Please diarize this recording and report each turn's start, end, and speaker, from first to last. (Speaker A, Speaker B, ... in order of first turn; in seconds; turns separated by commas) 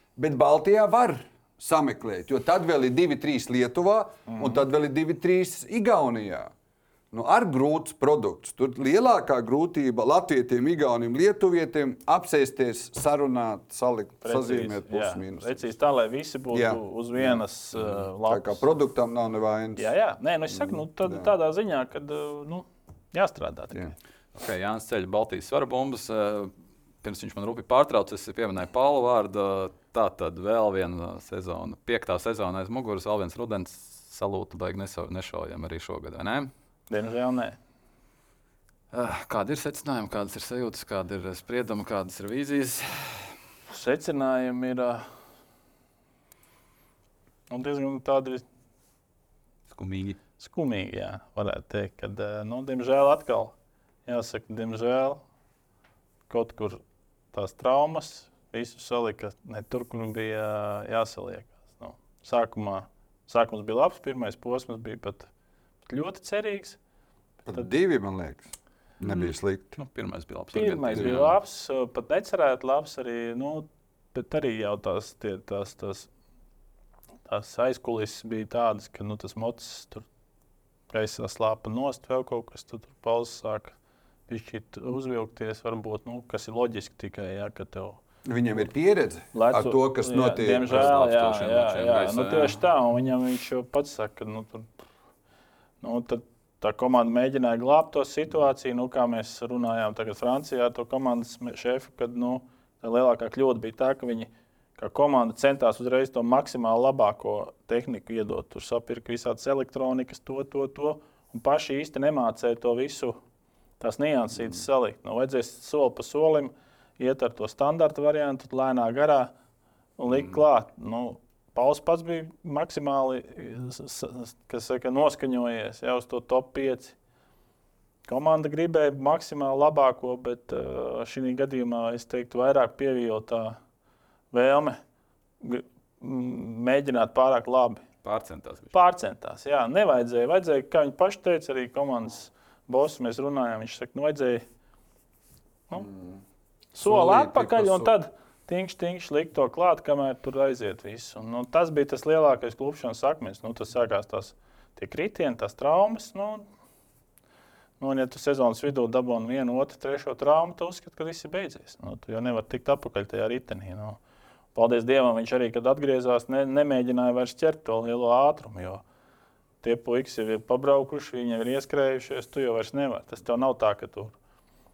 Speaker A: 0.2-6.5, Speaker B: 4.3-4.6, Speaker A: 7.1-15.6, Speaker B: 14.2-18.6, Speaker A: 16.5-17.4, Speaker A: 18.3-19.9, Speaker B: 19.8-23.9, Speaker A: 20.5-21.3, Speaker C: 24.4-26.5, Speaker C: 27.0-36.5, Speaker B: 36.9-37.6, Speaker C: 38.9-43.3, Speaker B: 43.7-45.1, Speaker B: 47.5-48.5, Speaker C: 49.7-50.2, Speaker B: 50.4-53.5, Speaker B: 54.1-55.2, Speaker B: 56.3-56.8, Speaker B: 57.3-65.3, Speaker B: 65.9-66.8, Speaker A: 67.5-68.5, Speaker A: 69.0-69.8, Speaker C: 69.0-71.4, Speaker B: 70.5-76.1, Speaker B: 77.3-80.1, Speaker B: 80.9-83.8, Speaker B: 84.3-88.0, Speaker A: 88.2-90.9, Speaker B: 89.3-94.7, Speaker C: 90.7-92.6, Speaker B: 95.8-113.2, Speaker B: 113.8-119.3, Speaker B: 120.0-127.0, Speaker B: 128.1-133.6, Speaker B: 134.3-134.8, Speaker B: 135.4-137.8, Speaker C: 138.0-138.7, Speaker B: 138.7-144.4, Speaker A: 145.8-146.2, Speaker B: 146.7-156.4, Speaker A: 146.8-147.9, Speaker B: 157.8-164.0, Speaker B: 164.6-168.8, Speaker B: 169.6-174.2